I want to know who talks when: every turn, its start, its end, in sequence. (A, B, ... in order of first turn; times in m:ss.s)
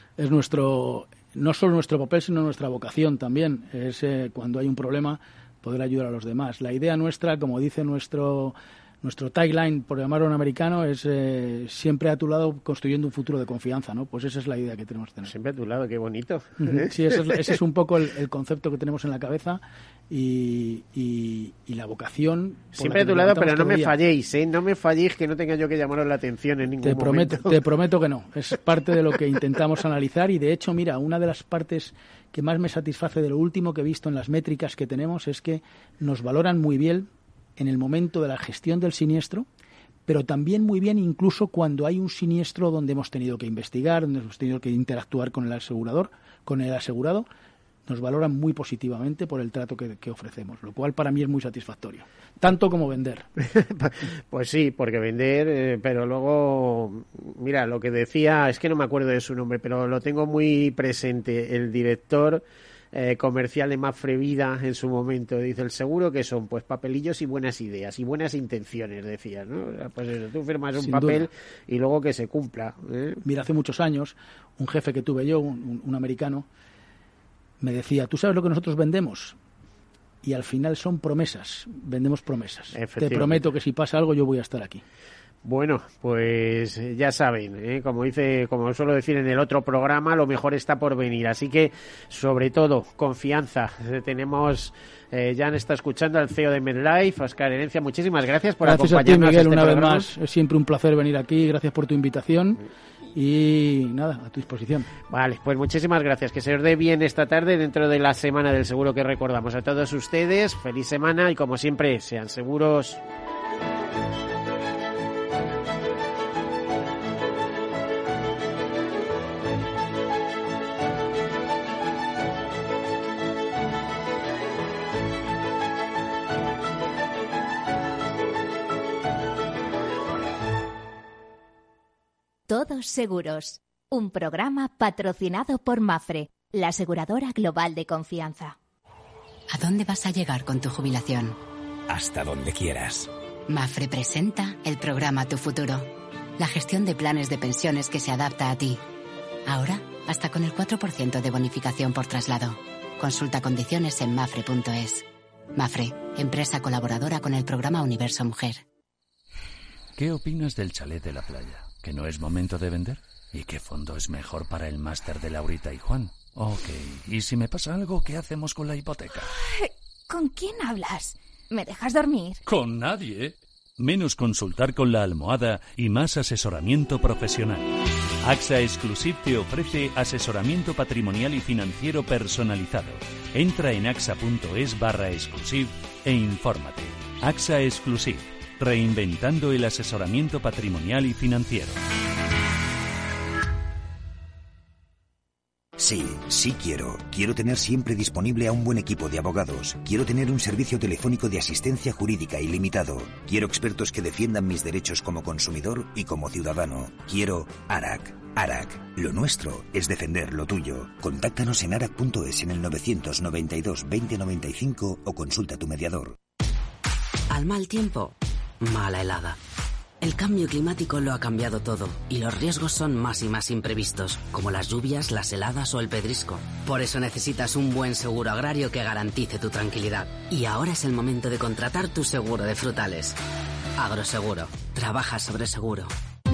0:00.2-0:15.3 A
0:15.3-0:17.6 B
0:16.6-0:23.9 A
0:22.8-0:27.6 B
0:26.8-0:39.5 A
0:40.1-0:47.3 A
0:47.9-0:53.3 A
0:53.4-1:02.4 B
1:02.9-1:13.2 B
1:10.8-1:11.3 A
1:13.2-1:16.5 A
1:17.6-1:19.4 A
1:20.2-1:24.8 A
1:22.7-1:23.4 B
1:25.4-1:40.1 B
1:38.6-1:42.6 A
1:43.2-1:44.9 A
1:45.1-1:53.0 B
2:12.5-2:18.6 C
2:19.5-2:21.4 D
2:21.9-2:23.1 E
2:23.5-2:28.8 D
2:29.5-2:38.6 D
2:40.0-2:49.3 F
2:49.4-2:52.4 C
2:52.5-3:11.8 F
3:15.8-3:36.2 E
3:37.3-3:39.4 G
3:40.0-3:53.2 G
3:53.8-3:55.9 G